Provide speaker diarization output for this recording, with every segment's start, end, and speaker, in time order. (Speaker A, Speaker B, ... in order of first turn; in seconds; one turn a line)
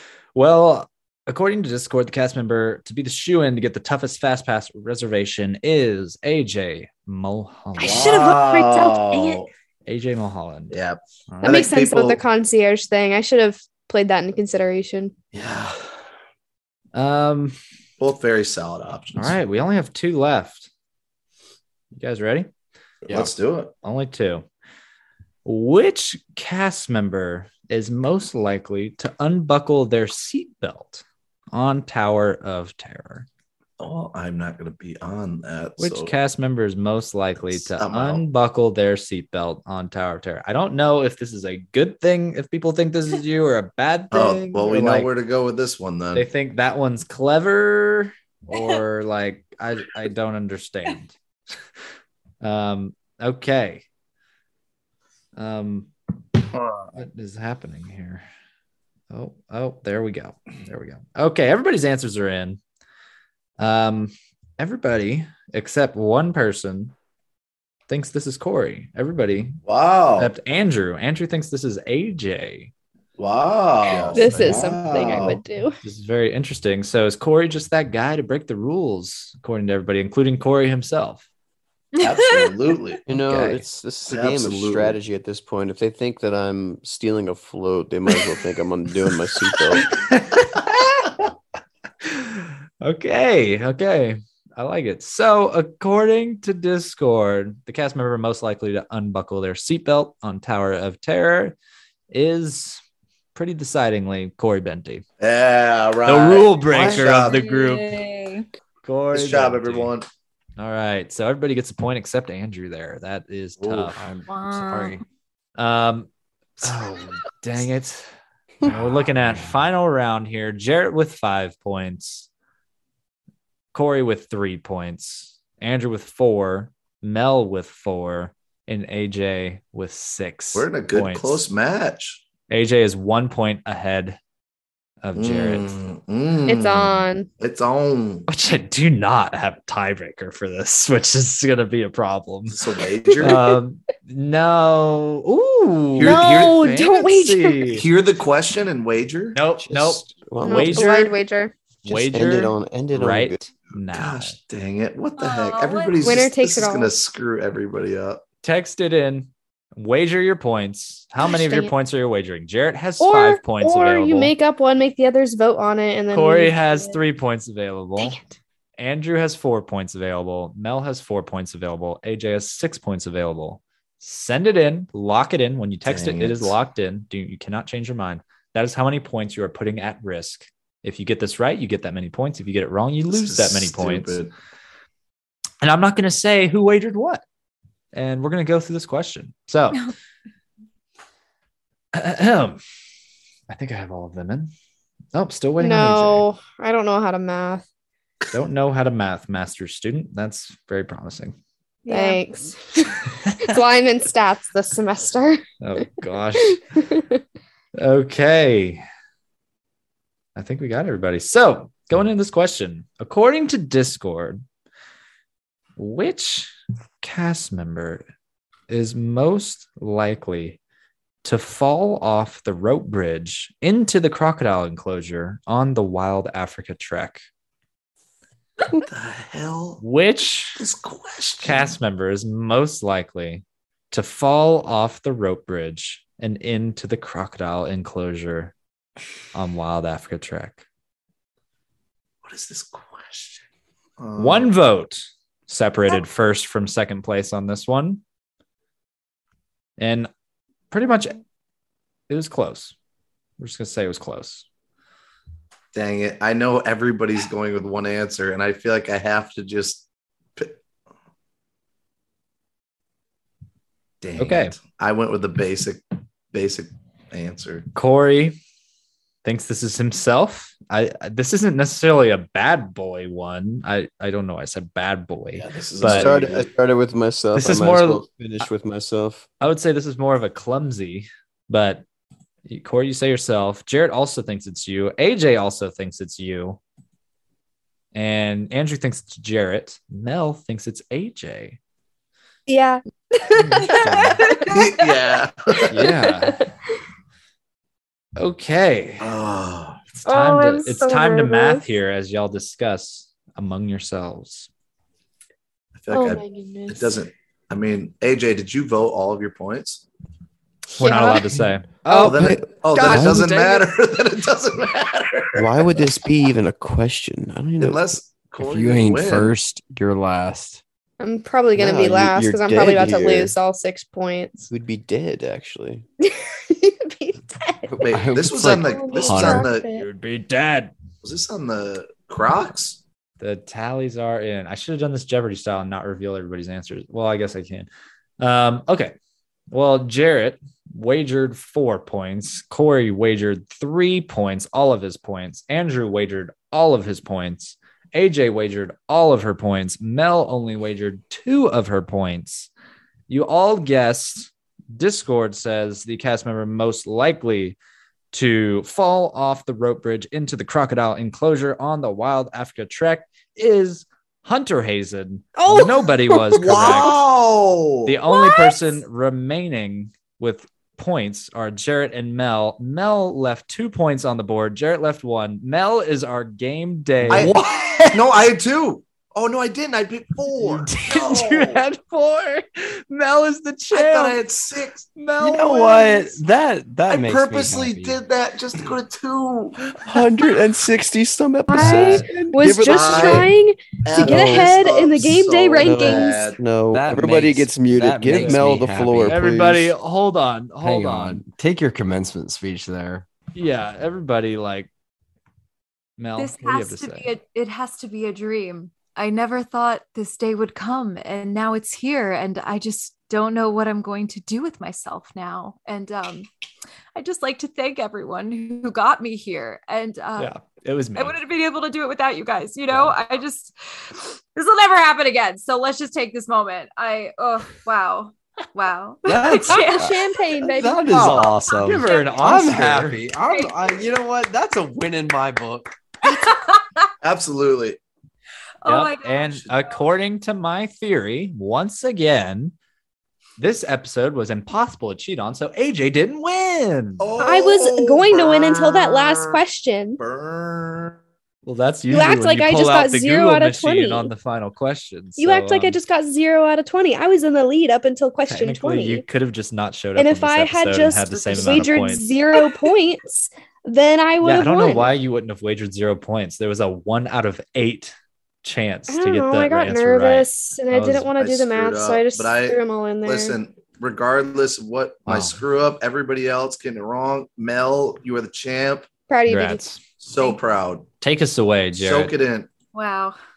Speaker A: 0.3-8.1
Speaker B: 7.8-9.4
Speaker C: 7.8-9.5
Speaker A: 9.8-10.7
Speaker C: 10.7-12.2
Speaker A: 11.3-11.6
Speaker B: 11.4-15.1
Speaker C: 15.3-15.8
Speaker A: 16.9-17.6
Speaker C: 18.0-19.4
Speaker A: 19.1-20.7
Speaker A: 21.9-22.5
Speaker C: 23.1-23.7
Speaker A: 23.8-24.4
Speaker A: 25.4-33.3
Speaker C: 33.8-36.1
Speaker A: 35.8-45.1
Speaker C: 37.5-38.2
Speaker C: 44.1-46.3
Speaker A: 46.1-51.1
Speaker D: 48.5-48.8
Speaker A: 52.4-53.9
Speaker A: 55.4-55.9
Speaker C: 56.5-57.0
Speaker A: 57.0-58.2
Speaker A: 59.1-62.6
Speaker A: 63.6-66.9
Speaker A: 67.9-69.6
Speaker C: 69.7-70.3
Speaker A: 70.2-72.7
Speaker C: 73.2-75.4
Speaker B: 74.1-75.8
Speaker A: 75.8-81.2
Speaker D: 82.0-82.5
Speaker C: 82.0-83.0
Speaker E: 83.1-89.9
Speaker A: 83.1-83.6
Speaker C: 84.1-85.0
Speaker A: 89.7-91.3
Speaker A: 92.0-101.5
Speaker A: 102.1-102.8
Speaker A: 103.3-105.0
Speaker C: 105.2-107.4
Speaker A: 106.0-108.0
Speaker D: 106.8-108.5
Speaker A: 108.8-109.9
Speaker C: 109.1-110.0
Speaker A: 110.6-114.0
Speaker C: 113.6-113.9
Speaker F: 113.9-115.0
Speaker D: 114.3-115.0
Speaker A: 115.6-116.1
Speaker A: 116.6-118.0
Speaker A: 118.6-122.3
Speaker A: 123.7-131.4
Speaker C: 130.5-132.2
Speaker A: 132.5-134.2
Speaker A: 135.0-135.8
Speaker C: 135.2-138.3
Speaker B: 136.5-137.3
Speaker A: 138.3-142.6
Speaker C: 142.5-143.4
Speaker B: 143.2-143.5
Speaker A: 143.2-147.9
Speaker C: 145.9-146.7
Speaker B: 146.0-147.8
Speaker C: 147.7-149.4
Speaker A: 149.3-151.2
Speaker E: 149.6-151.0
Speaker B: 150.4-151.5
Speaker A: 151.8-154.3
Speaker E: 151.8-153.4
Speaker C: 153.9-158.2
Speaker D: 155.2-156.2
Speaker B: 156.0-156.9
Speaker A: 158.4-164.3
Speaker B: 161.2-161.7
Speaker B: 163.0-167.0
Speaker A: 166.1-168.2
Speaker B: 168.0-168.3
Speaker A: 168.8-184.2
Speaker C: 175.8-176.6
Speaker C: 183.1-184.3
Speaker A: 185.6-187.2
Speaker A: 187.9-189.9
Speaker A: 191.9-192.6
Speaker A: 193.5-194.5
Speaker A: 195.1-196.2
Speaker B: 195.6-197.6
Speaker A: 198.3-201.3
Speaker B: 201.8-205.4
Speaker D: 201.9-202.2
Speaker A: 205.6-206.6
Speaker B: 206.8-207.0
Speaker A: 207.8-208.8
Speaker A: 210.3-214.4
Speaker A: 215.8-216.5
Speaker A: 217.0-218.0
Speaker A: 218.7-220.6
Speaker A: 221.2-227.2
Speaker C: 228.6-229.8
Speaker A: 229.8-230.6
Speaker C: 230.6-231.8
Speaker A: 231.4-238.5
Speaker A: 239.3-240.6
Speaker C: 242.2-243.4
Speaker C: 244.0-244.5
Speaker A: 244.2-248.0
Speaker A: 249.8-250.1
Speaker A: 250.7-251.2
Speaker A: 252.1-252.7
Speaker A: 253.4-254.4
Speaker C: 255.7-259.8
Speaker C: 264.0-267.7
Speaker A: 264.2-264.6
Speaker A: 267.8-268.4
Speaker A: 269.2-276.1
Speaker C: 275.3-276.5
Speaker E: 275.8-279.2
Speaker A: 277.3-278.5
Speaker A: 279.4-281.8
Speaker A: 282.4-286.6
Speaker A: 287.9-291.6
Speaker B: 292.5-294.6
Speaker A: 293.4-294.2
Speaker C: 294.5-295.9
Speaker A: 295.7-296.5
Speaker B: 295.8-296.4
Speaker A: 298.2-299.1
Speaker C: 299.0-299.9
Speaker A: 299.9-304.5
Speaker B: 300.1-301.6
Speaker C: 305.8-309.8
Speaker B: 305.9-307.0
Speaker A: 310.7-313.6
Speaker B: 310.8-312.2
Speaker C: 311.9-315.9
Speaker E: 312.1-313.3
Speaker B: 312.7-313.0
Speaker E: 315.3-317.8
Speaker C: 317.6-319.3
Speaker F: 318.4-320.6
Speaker B: 321.0-324.5
Speaker E: 321.5-323.3
Speaker E: 324.5-325.8
Speaker B: 326.0-327.9
Speaker E: 327.7-328.6
Speaker C: 327.8-329.6
Speaker F: 327.9-329.5
Speaker B: 328.6-329.9
Speaker A: 329.6-330.7
Speaker C: 331.0-332.8
Speaker A: 333.2-337.7
Speaker A: 338.2-338.9
Speaker A: 339.5-352.5
Speaker A: 353.1-357.6
Speaker A: 358.1-367.0
Speaker B: 365.4-366.5
Speaker C: 366.3-368.0
Speaker A: 367.9-378.1
Speaker B: 368.1-368.7
Speaker F: 377.0-377.3
Speaker C: 377.1-381.6
Speaker A: 380.4-384.2
Speaker C: 383.7-384.9
Speaker A: 384.9-386.2
Speaker F: 385.2-388.0
Speaker C: 386.9-390.1
Speaker E: 389.8-393.3
Speaker B: 391.5-396.3
Speaker F: 391.6-392.0
Speaker C: 392.6-393.3
Speaker C: 393.8-396.4
Speaker E: 393.9-394.5
Speaker E: 395.6-399.7
Speaker F: 396.7-399.2
Speaker A: 398.1-401.2
Speaker F: 400.6-403.1
Speaker A: 403.3-404.7
Speaker A: 406.0-407.1
Speaker D: 406.2-416.3
Speaker D: 416.9-420.3
Speaker A: 420.2-421.1
Speaker D: 420.9-429.9
Speaker F: 429.0-435.8
Speaker B: 429.6-431.0
Speaker A: 430.9-433.0
Speaker D: 431.3-432.2
Speaker D: 433.3-433.6
Speaker D: 436.0-436.9
Speaker C: 437.0-437.8
Speaker D: 438.6-439.5
Speaker A: 438.6-442.5
Speaker A: 443.4-447.2
Speaker C: 447.0-449.4
Speaker B: 447.2-450.0
Speaker C: 450.0-451.0
Speaker A: 451.4-455.8
Speaker B: 451.9-454.1
Speaker B: 455.2-459.0
Speaker A: 458.2-462.2
Speaker B: 460.0-464.9
Speaker A: 464.2-471.1
Speaker B: 468.9-473.4
Speaker C: 471.2-478.9
Speaker A: 475.1-475.4
Speaker B: 479.1-479.6
Speaker A: 479.3-479.8
Speaker C: 480.0-480.9
Speaker A: 481.0-482.1
Speaker C: 481.8-482.5
Speaker D: 482.7-483.2